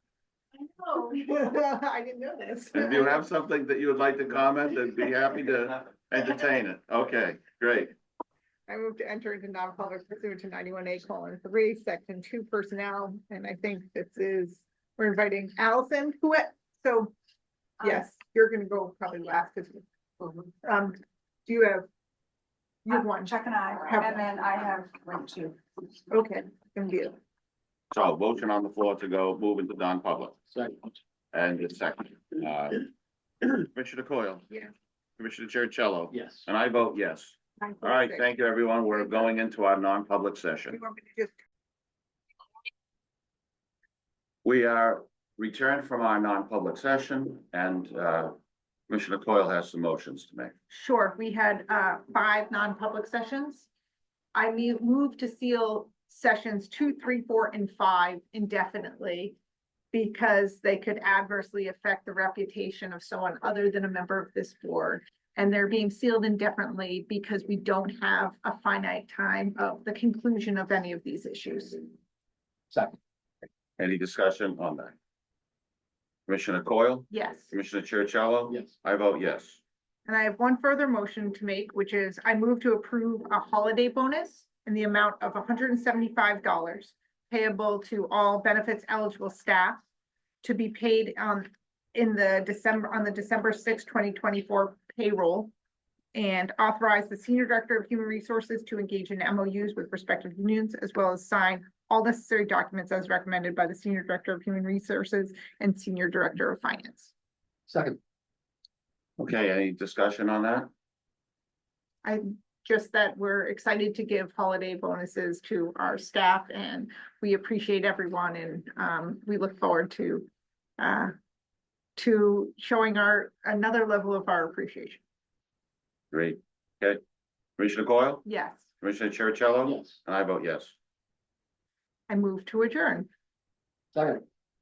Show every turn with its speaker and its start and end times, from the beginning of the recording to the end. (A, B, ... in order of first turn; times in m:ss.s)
0:00.8-0:03.2 A
0:02.7-0:07.9 B
0:08.7-0:17.1 A
0:17.8-0:21.9 A
0:22.8-0:24.3 A
0:22.9-0:25.6 C
0:26.1-0:27.2 A
0:27.9-0:30.4 B
0:30.5-0:30.9 D
0:31.3-0:32.8 B
0:33.5-0:34.5 B
0:35.2-0:40.8 B
0:36.1-0:36.5 D
0:37.6-0:38.3 A
0:38.9-0:39.3 A
0:40.7-0:41.4 A
0:44.4-0:48.3 B
0:48.9-0:50.5 B
0:50.7-0:53.7 A
0:54.3-0:59.4 A
0:59.9-1:11.9 A
1:12.7-1:13.0 D
1:13.8-1:14.9 B
1:16.3-1:19.6 B
1:17.1-1:17.5 A
1:18.5-1:18.7 D
1:20.0-1:29.8 A
1:30.4-1:35.5 A
1:36.1-1:47.1 A
1:47.7-1:48.0 D
1:49.2-1:50.7 B
1:52.0-2:01.1 A
2:02.0-2:05.0 A
2:06.1-2:07.0 B
2:07.6-2:08.2 B
2:08.2-2:08.6 A
2:08.8-2:10.8 B
2:09.6-2:10.0 D
2:12.1-2:13.1 A
2:13.9-2:14.2 D